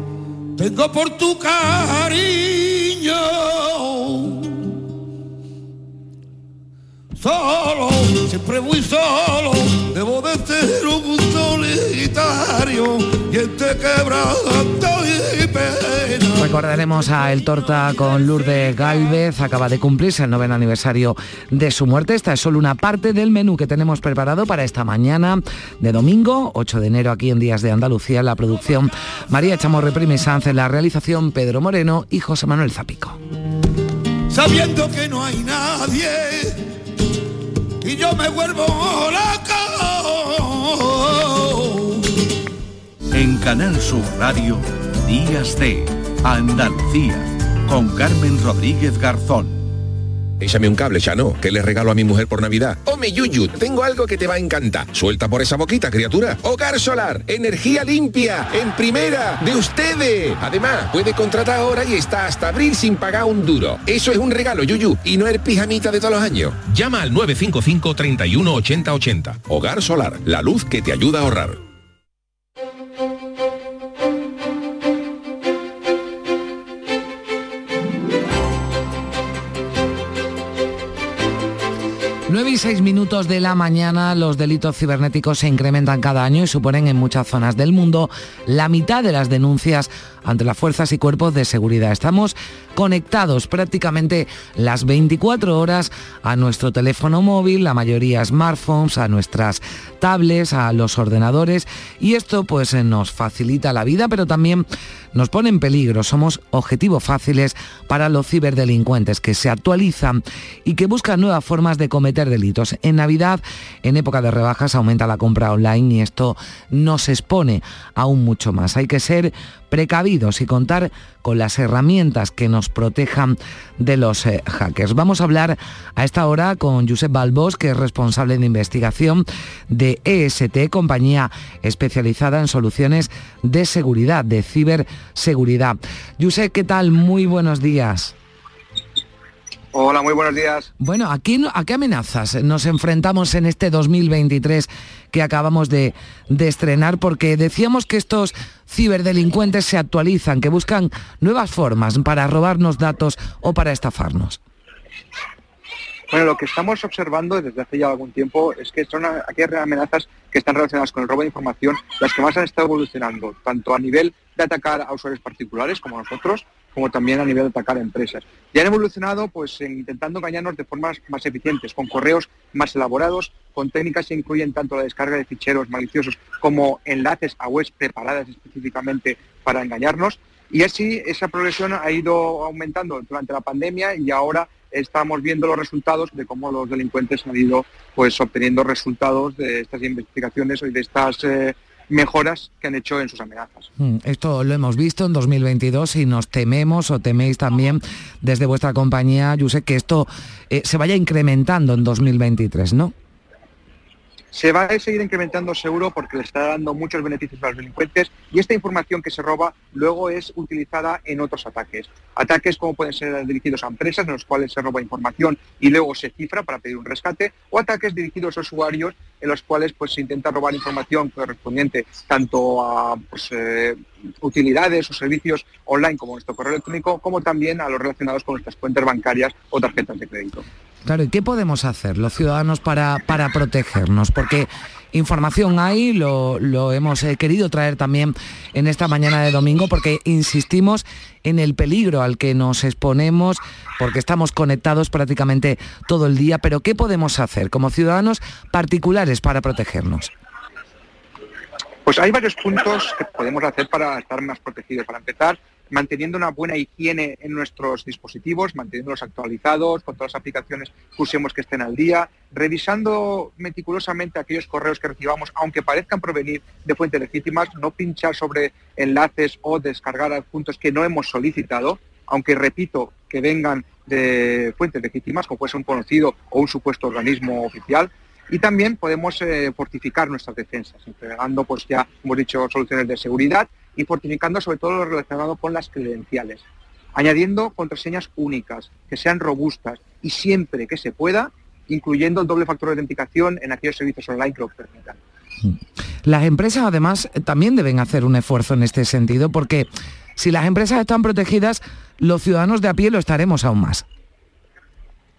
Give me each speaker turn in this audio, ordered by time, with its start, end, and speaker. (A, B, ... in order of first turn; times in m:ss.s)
0:00.6-0:04.7 A
0:07.1-0:16.6 A
0:16.4-0:33.2 B
0:34.3-0:36.6 A
0:37.8-0:42.1 A
0:43.1-0:49.6 C
0:50.4-1:11.6 D
1:22.3-2:18.1 B
2:19.7-2:20.7 E
2:20.8-2:34.4 B
2:36.1-3:13.7 E
3:13.8-3:22.9 B
3:24.3-3:50.4 E
3:50.8-4:10.1 B
4:11.8-4:46.4 E
4:47.0-4:55.0 E
4:55.4-5:03.9 B